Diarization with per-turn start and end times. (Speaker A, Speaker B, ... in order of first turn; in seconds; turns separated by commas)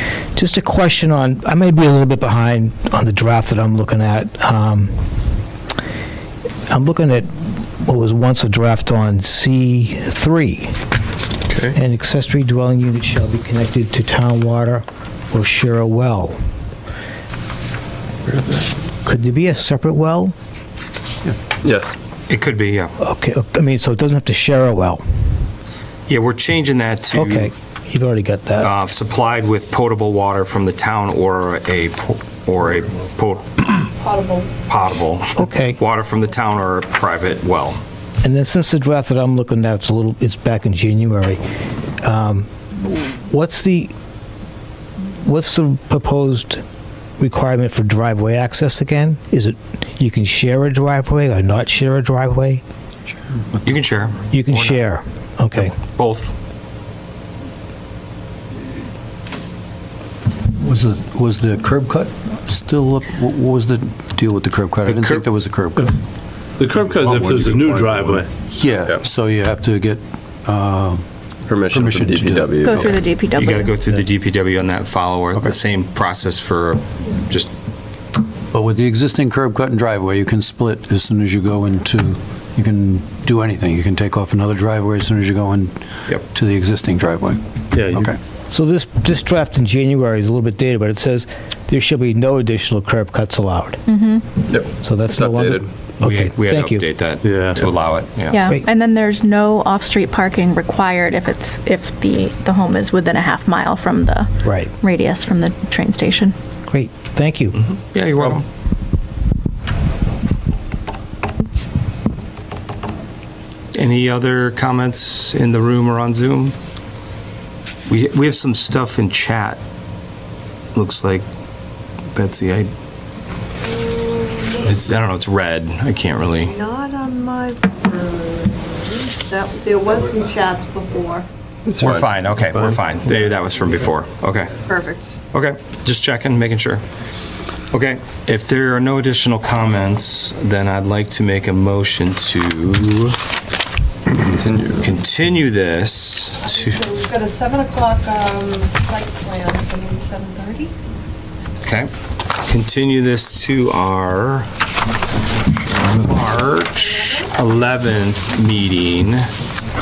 Speaker A: 0.3-4.9, Speaker A: 6.7-10.7, Speaker A: 11.7-16.4, Speaker A: 19.0-20.3, Speaker B: 21.6-21.9, Speaker C: 22.3-22.9, Speaker A: 23.0-25.0, Speaker C: 26.1-27.5, Speaker A: 27.1-28.7, Speaker C: 28.6-33.8, Speaker D: 34.0-34.5, Speaker C: 34.6-37.8, Speaker A: 35.4-35.8, Speaker A: 38.2-41.4, Speaker A: 42.0-42.5, Speaker A: 43.0-43.9, Speaker A: 45.2-46.6, Speaker A: 47.2-52.6, Speaker C: 53.6-54.9, Speaker A: 54.3-55.7, Speaker C: 55.5-56.3, Speaker E: 60.5-65.9, Speaker C: 64.8-65.2, Speaker F: 65.8-66.0, Speaker F: 66.6-68.3, Speaker E: 67.0-71.1, Speaker B: 71.5-73.0, Speaker E: 71.7-72.9, Speaker G: 72.6-73.7, Speaker C: 73.3-77.5, Speaker E: 78.5-88.2, Speaker F: 87.7-88.1, Speaker A: 88.5-93.8, Speaker G: 93.9-94.3, Speaker B: 94.5-95.6, Speaker A: 94.7-96.8, Speaker C: 96.0-98.5, Speaker F: 97.2-97.7, Speaker G: 98.3-106.3, Speaker A: 104.4-104.7, Speaker A: 106.7-107.6, Speaker C: 107.5-108.4, Speaker C: 113.7-116.5, Speaker C: 117.9-119.6, Speaker C: 120.7-121.2, Speaker C: 122.1-122.7, Speaker D: 123.9-124.5, Speaker C: 124.6-126.5, Speaker D: 126.4-131.2, Speaker B: 131.6-132.1, Speaker C: 131.8-134.6, Speaker D: 134.6-135.1, Speaker C: 135.3-136.8, Speaker C: 137.7-143.2, Speaker B: 144.2-144.9, Speaker C: 144.8-146.8, Speaker D: 146.5-150.7, Speaker C: 151.6-151.9, Speaker C: 152.4-154.5, Speaker C: 155.8-159.2, Speaker D: 156.8-157.2